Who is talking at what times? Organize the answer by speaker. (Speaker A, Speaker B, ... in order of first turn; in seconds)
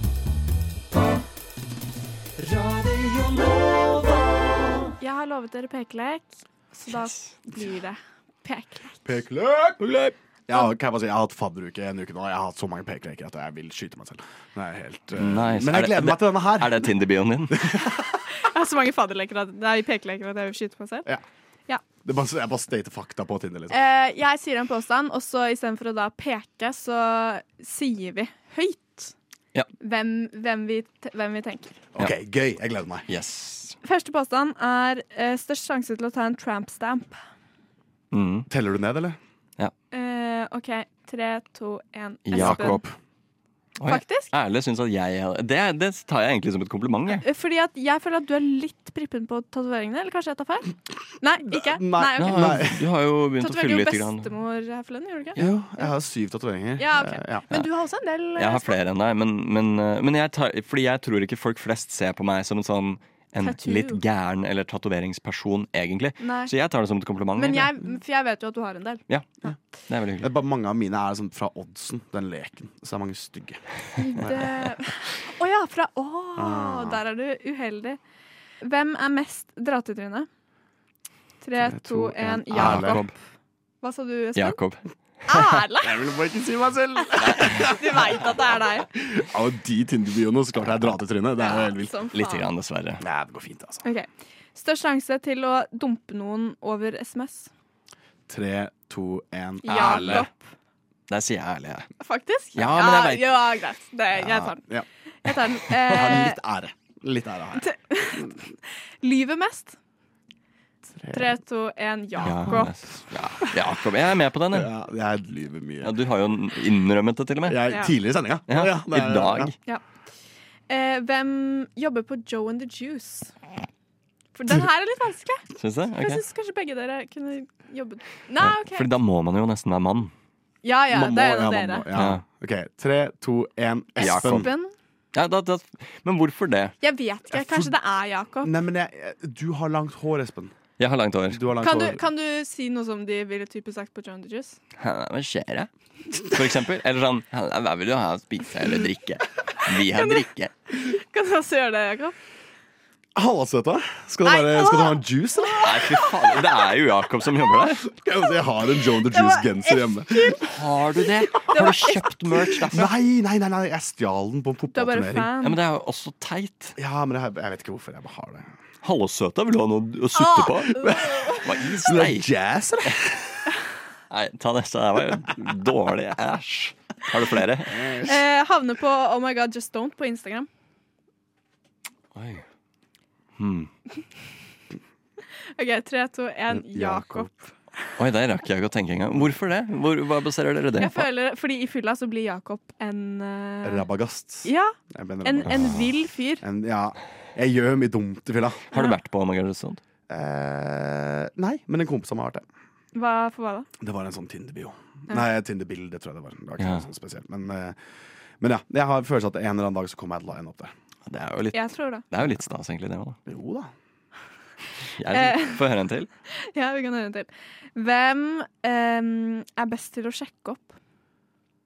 Speaker A: 2.6-4.0, 15.2-17.7, 33.1-33.8, 38.1-38.5, 42.3-42.8, 43.8-47.2, 52.2-54.3, 58.4-67.7, 69.9-70.3, 82.5-83.1, 84.3-85.6, 87.2-87.7, 92.1-93.0, 99.7-100.3, 101.1-101.9, 102.5-103.5, 104.1-104.5, 105.3-106.2, 112.2-114.7, 115.8-117.7, 118.5-119.5, 125.5-126.2, 128.4-130.1, 131.9-132.2, 134.0-134.5, 135.1-136.7, 140.8-141.6, 144.8-145.7, 146.2-150.5, 155.6-157.8, 160.5-162.9, 165.4-166.7, 168.8-172.3, 174.1-177.8, 182.1-182.4, 183.4-183.7, 188.0-191.1, 198.7-199.8, 206.6-206.8, 211.1-213.2, 215.0-216.1
Speaker B: 5.0-9.0, 18.3-21.1, 23.7-29.1, 29.8-31.8, 33.8-37.2, 39.9-42.8, 43.9-44.3, 47.2-52.7, 53.4-55.4, 56.8-58.8, 63.4-64.0, 66.2-66.5, 67.3-69.5, 74.0-78.0, 78.6-80.3, 81.4-83.1, 83.8-84.6, 85.3-86.0, 87.3-88.9, 91.4-92.5, 93.8-97.5, 99.6-100.3, 102.0-104.6, 105.2-106.4, 107.6-108.4, 109.0-109.8, 111.1-112.8, 120.7-123.3, 124.3-125.4, 126.0-128.9, 130.6-131.8, 134.0-134.7, 136.8-138.5, 141.6-144.6, 149.9-152.1, 154.2-156.4, 158.9-160.5, 161.5-162.5, 164.7-165.6, 170.1-171.4, 178.0-180.5, 185.6-187.5, 190.8-193.8, 194.4-196.4, 202.9-203.7, 211.5-212.0, 215.1-215.6, 216.5-220.7
Speaker C: 9.0-9.9, 10.5-16.9, 17.5-18.0, 22.0-23.8, 31.9-33.1, 38.5-39.2, 42.3-42.9, 51.5-52.8, 55.4-57.7, 70.2-73.6, 74.2-74.6, 76.3-77.0, 81.5-83.0, 85.8-88.3, 88.9-92.0, 93.0-93.8, 98.3-100.3, 105.8-107.6, 110.9-111.3, 112.5-112.7, 114.5-115.9, 117.4-119.5, 130.9-134.5, 137.3-137.7, 138.4-140.5, 141.3-142.0, 153.1-156.1, 157.9-160.4, 162.7-165.3, 166.8-168.5, 170.8-173.4, 177.7-178.2, 186.5-187.3, 193.6-195.9, 196.4-198.7, 200.1-202.4, 203.8-207.8, 208.4-210.7, 213.3-213.7